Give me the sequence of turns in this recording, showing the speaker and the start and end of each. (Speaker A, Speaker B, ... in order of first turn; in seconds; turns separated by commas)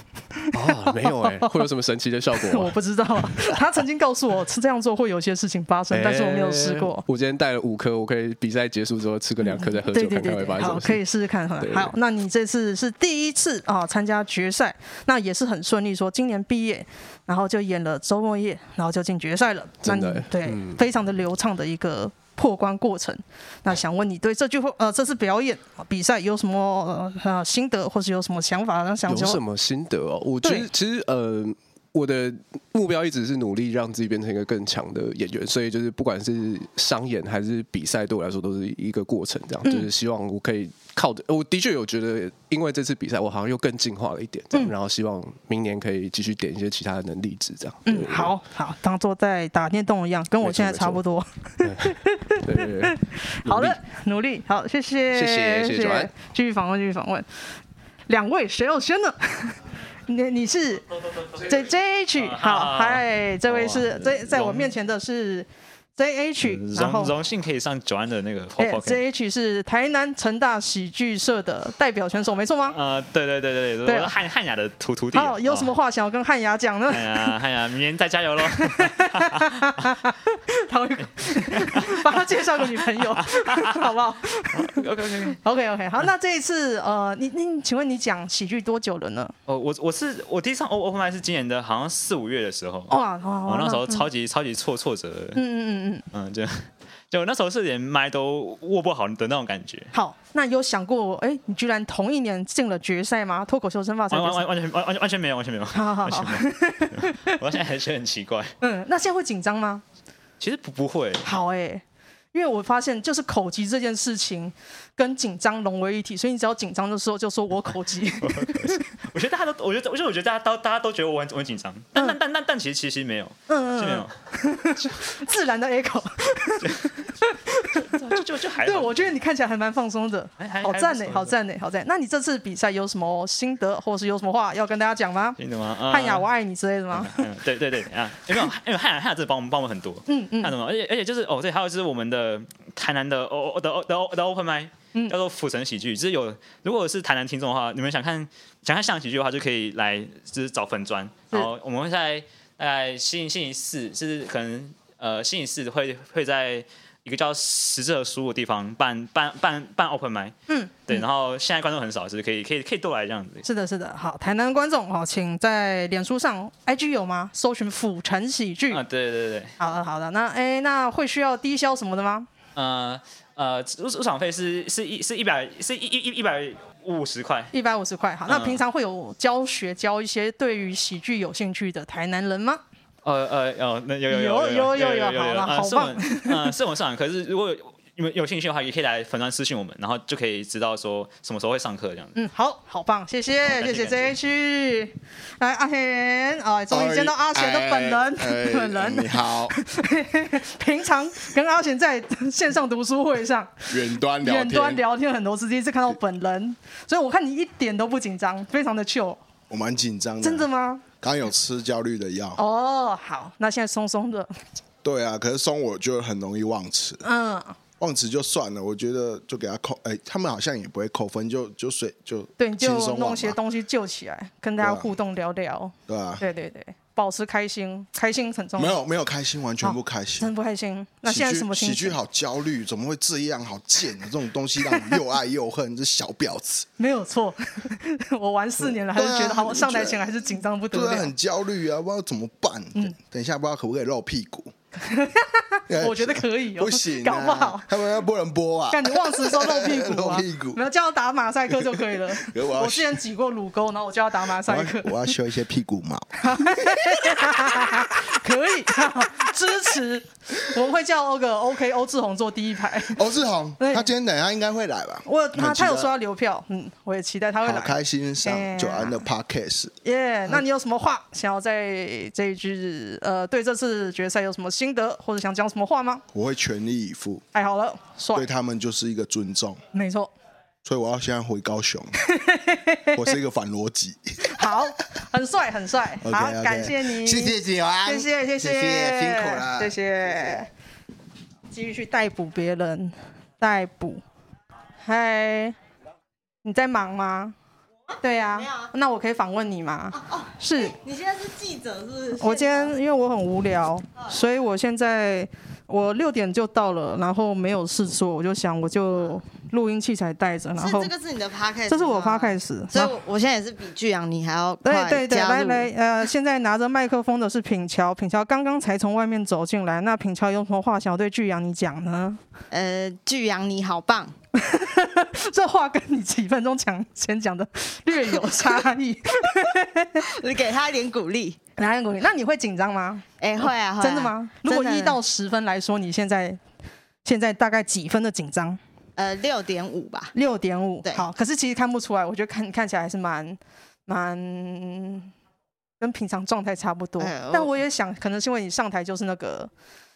Speaker A: 0.5-1.6, Speaker B: 0.5-3.5, Speaker A: 2.4-7.0, Speaker B: 5.9-11.0, Speaker A: 9.4-29.4, Speaker B: 11.6-11.9, Speaker B: 19.8-20.8, Speaker B: 29.1-48.4, Speaker A: 30.4-30.7, Speaker A: 47.9-57.3, Speaker B: 50.4-51.0, Speaker B: 51.6-53.8, Speaker B: 55.1-56.1, Speaker A: 58.1-59.5, Speaker A: 60.1-60.8, Speaker A: 61.4-67.1, Speaker C: 62.2-64.7, Speaker C: 66.4-69.0, Speaker A: 68.6-72.8, Speaker C: 72.7-75.7, Speaker A: 73.9-74.1, Speaker A: 75.1-77.3, Speaker C: 76.9-79.5, Speaker A: 78.5-84.8, Speaker C: 81.5-82.0, Speaker C: 83.0-83.9, Speaker C: 84.6-85.4, Speaker A: 85.4-89.3, Speaker C: 89.5-92.9, Speaker A: 92.9-94.0, Speaker C: 93.5-95.4, Speaker A: 95.3-96.0, Speaker C: 96.1-99.9, Speaker A: 99.9-104.4, Speaker C: 104.1-108.5, Speaker A: 105.7-107.3, Speaker A: 108.6-109.8, Speaker C: 110.4-111.2, Speaker A: 111.2-111.8, Speaker A: 112.3-118.8, Speaker C: 118.2-124.1, Speaker A: 123.5-126.8, Speaker A: 127.3-127.9, Speaker C: 127.7-129.1, Speaker A: 128.6-135.4, Speaker C: 130.4-131.3, Speaker C: 135.4-136.3, Speaker A: 135.9-137.2, Speaker C: 136.9-160.3, Speaker A: 140.1-140.5, Speaker A: 160.5-161.0, Speaker C: 160.9-163.4, Speaker A: 163.4-168.8, Speaker C: 168.7-169.5, Speaker A: 169.6-172.3, Speaker C: 172.6-177.5, Speaker A: 177.5-182.6, Speaker C: 178.3-178.6, Speaker C: 183.1-192.2, Speaker A: 184.1-186.5, Speaker A: 192.2-203.6, Speaker C: 193.4-194.1, Speaker D: 196.7-199.5, Speaker D: 203.7-204.8, Speaker A: 204.2-209.2, Speaker D: 209.5-210.5, Speaker A: 210.2-210.8, Speaker D: 211.0-212.4, Speaker A: 212.4-214.3, Speaker D: 214.8-217.0, Speaker A: 217.0-217.6, Speaker D: 217.8-223.4, Speaker A: 222.4-228.8, Speaker D: 224.6-224.9, Speaker D: 225.9-226.2, Speaker D: 228.6-230.3, Speaker A: 229.6-232.0, Speaker D: 231.1-236.7, Speaker A: 236.8-241.1, Speaker D: 238.9-240.0, Speaker D: 240.7-244.5, Speaker A: 244.8-247.7, Speaker D: 245.7-250.6, Speaker A: 248.7-254.9, Speaker D: 252.2-253.0, Speaker D: 254.4-256.1, Speaker A: 256.2-262.9, Speaker D: 262.9-265.9, Speaker A: 263.6-263.9, Speaker A: 265.1-269.0, Speaker D: 267.4-269.7, Speaker A: 269.8-276.0, Speaker D: 276.1-277.2, Speaker A: 277.3-278.3, Speaker D: 278.1-279.6, Speaker A: 279.7-280.1, Speaker D: 280.7-281.9, Speaker A: 282.1-283.0, Speaker D: 283.0-284.0, Speaker A: 284.3-290.5, Speaker D: 286.0-289.7, Speaker A: 291.5-294.0, Speaker A: 294.9-295.6, Speaker A: 296.4-297.4, Speaker A: 298.0-300.8, Speaker E: 298.4-298.7, Speaker E: 300.0-302.7, Speaker A: 302.2-310.9, Speaker E: 310.6-315.7, Speaker A: 311.7-312.9, Speaker A: 314.6-322.2, Speaker E: 322.5-324.1, Speaker A: 324.4-330.0, Speaker E: 330.2-331.4, Speaker A: 331.6-336.4, Speaker E: 333.2-335.0, Speaker A: 337.1-338.6, Speaker E: 339.0-340.1, Speaker A: 340.1-345.1, Speaker A: 345.8-349.5, Speaker E: 347.0-347.5